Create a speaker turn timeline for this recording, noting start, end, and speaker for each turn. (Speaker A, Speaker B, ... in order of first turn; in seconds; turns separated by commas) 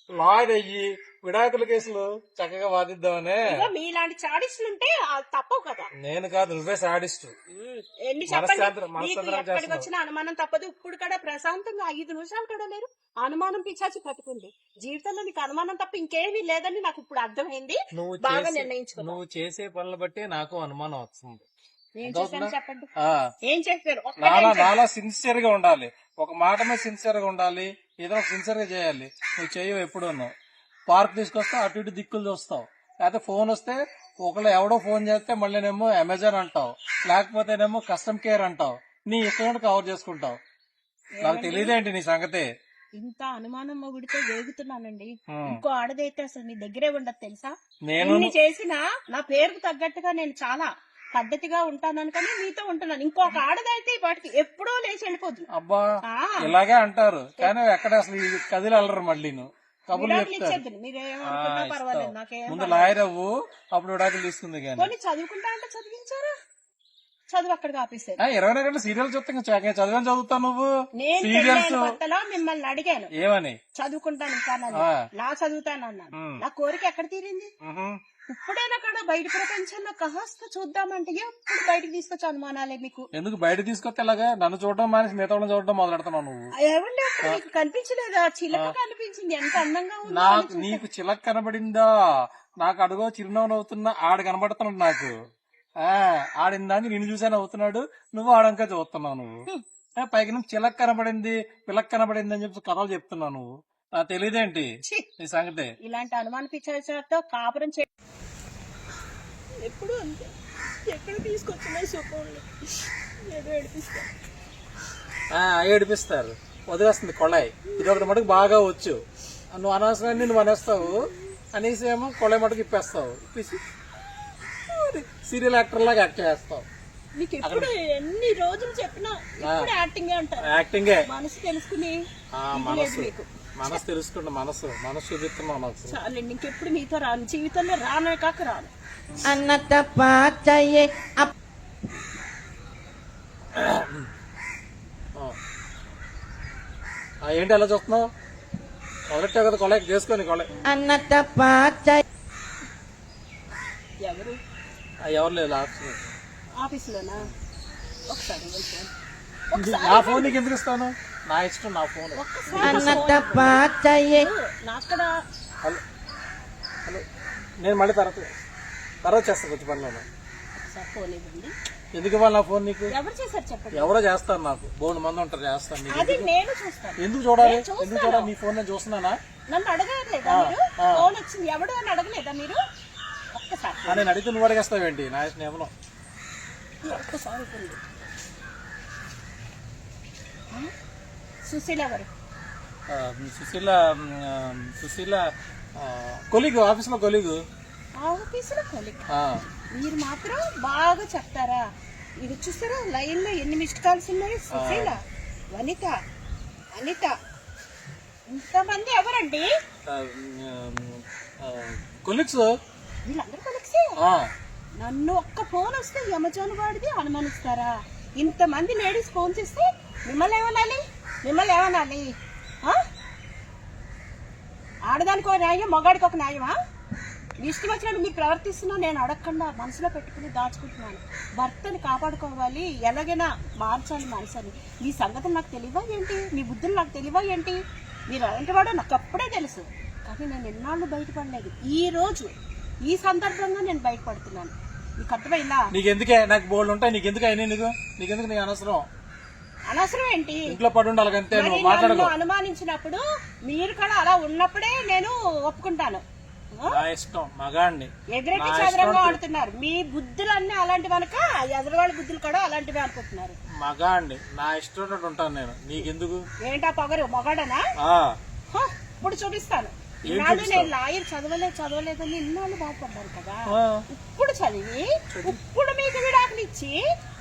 Speaker A: 0.1-3.7, Speaker B: 3.4-5.9, Speaker A: 6.0-9.9, Speaker B: 8.0-19.2, Speaker A: 17.9-21.4, Speaker B: 22.0-22.9, Speaker A: 22.0-23.2, Speaker B: 23.4-24.7, Speaker A: 24.2-30.3, Speaker A: 30.9-40.4, Speaker B: 41.2-41.8, Speaker A: 41.2-42.5, Speaker B: 43.0-55.5, Speaker A: 45.3-45.6, Speaker A: 47.9-48.3, Speaker A: 55.5-55.9, Speaker B: 56.1-56.5, Speaker A: 56.4-60.6, Speaker B: 59.9-63.0, Speaker A: 61.2-64.9, Speaker B: 64.8-66.3, Speaker B: 67.3-68.2, Speaker A: 68.2-72.0, Speaker B: 71.0-73.1, Speaker A: 73.1-73.6, Speaker B: 73.8-77.5, Speaker A: 74.7-75.0, Speaker A: 76.1-76.4, Speaker A: 77.6-78.0, Speaker B: 78.3-83.1, Speaker A: 83.1-86.5, Speaker B: 86.6-90.8, Speaker A: 90.1-91.9, Speaker A: 92.6-95.1, Speaker A: 95.8-105.7, Speaker B: 105.8-107.9, Speaker B: 109.6-110.3, Speaker B: 110.8-114.1, Speaker A: 115.3-123.6, Speaker B: 117.7-118.3, Speaker B: 120.8-121.1, Speaker A: 124.7-126.7, Speaker B: 127.2-130.5, Speaker A: 127.4-127.7, Speaker A: 129.4-129.7, Speaker A: 130.4-131.1, Speaker B: 131.1-132.0, Speaker A: 132.3-136.0, Speaker B: 132.5-133.8, Speaker B: 135.9-138.7, Speaker C: 139.2-141.3, Speaker A: 143.5-144.1, Speaker A: 147.2-148.1, Speaker A: 149.1-150.5, Speaker C: 150.7-152.0, Speaker B: 154.0-154.4, Speaker A: 155.0-156.1, Speaker B: 156.6-157.3, Speaker B: 158.1-158.9, Speaker B: 159.5-160.3, Speaker A: 159.5-163.1, Speaker B: 162.1-165.1, Speaker C: 162.6-164.3, Speaker A: 167.6-168.3, Speaker A: 169.0-170.0, Speaker B: 170.6-171.5, Speaker A: 171.9-172.9, Speaker B: 172.9-173.9, Speaker A: 173.7-176.3, Speaker B: 175.9-178.3, Speaker A: 177.0-179.2, Speaker B: 179.5-182.6, Speaker A: 180.3-181.1, Speaker B: 183.3-184.1, Speaker A: 183.9-185.7, Speaker B: 186.8-187.8, Speaker B: 191.4-192.1, Speaker A: 192.9-197.4, Speaker B: 198.0-199.0, Speaker A: 199.1-199.4, Speaker B: 199.7-201.6, Speaker B: 202.2-205.0, Speaker A: 204.5-204.9, Speaker B: 205.5-206.0, Speaker B: 206.8-207.1, Speaker B: 208.3-209.5, Speaker A: 209.9-212.6, Speaker B: 213.1-213.9, Speaker A: 214.0-214.3, Speaker B: 214.8-222.1, Speaker B: 224.9-226.5, Speaker B: 227.4-242.3, Speaker B: 242.8-245.7, Speaker A: 245.7-248.9, Speaker B: 249.7-250.5, Speaker A: 250.5-252.1, Speaker B: 251.3-256.8, Speaker A: 256.7-259.2, Speaker B: 258.1-263.4, Speaker A: 263.6-266.2, Speaker B: 266.4-267.6, Speaker A: 267.8-268.1, Speaker B: 268.5-276.8, Speaker A: 270.1-270.7, Speaker A: 273.5-273.9, Speaker A: 275.1-275.4